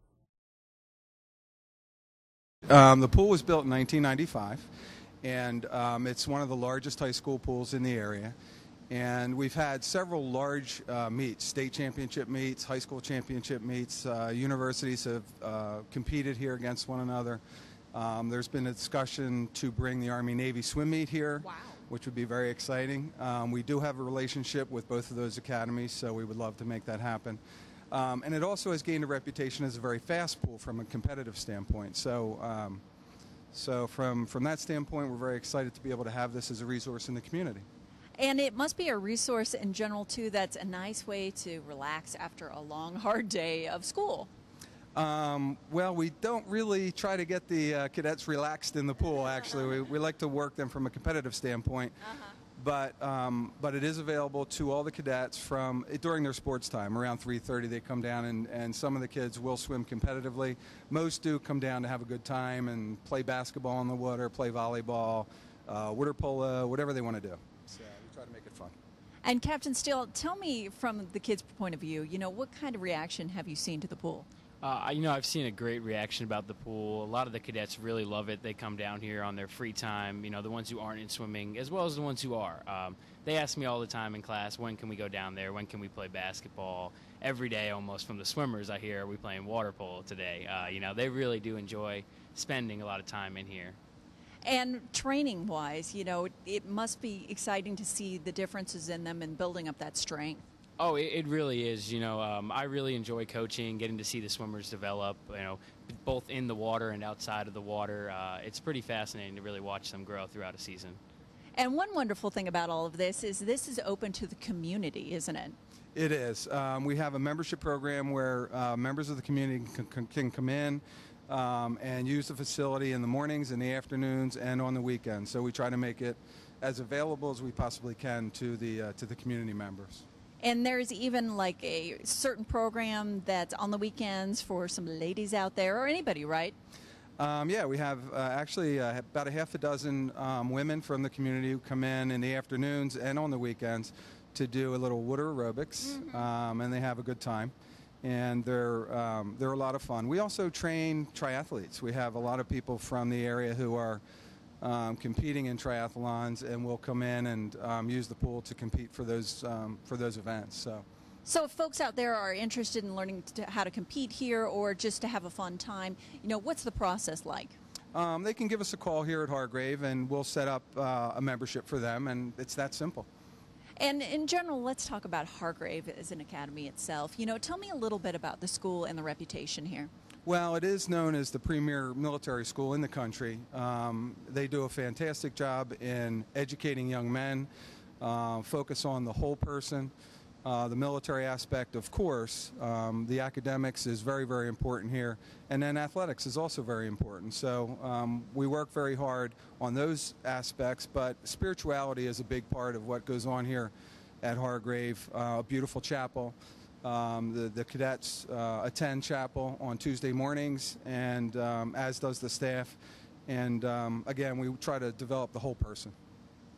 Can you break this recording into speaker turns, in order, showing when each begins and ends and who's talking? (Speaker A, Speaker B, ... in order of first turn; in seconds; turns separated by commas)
Speaker A: 2.7-4.7, Speaker A: 5.2-8.3, Speaker A: 8.9-17.4, Speaker A: 17.9-27.4, Speaker A: 27.9-32.8, Speaker A: 33.5-37.6, Speaker B: 38.2-44.3, Speaker A: 44.9-51.9, Speaker A: 52.5-68.7, Speaker B: 69.2-74.3, Speaker C: 74.6-93.8, Speaker B: 94.4-100.4, Speaker C: 100.8-111.0, Speaker B: 111.6-115.5, Speaker A: 115.9-130.0, Speaker B: 130.4-136.6, Speaker A: 137.2-154.0, Speaker A: 154.6-160.8, Speaker B: 161.2-167.6, Speaker A: 167.9-173.1, Speaker B: 173.8-179.9, Speaker A: 180.2-187.5, Speaker A: 188.0-189.9, Speaker A: 190.4-215.9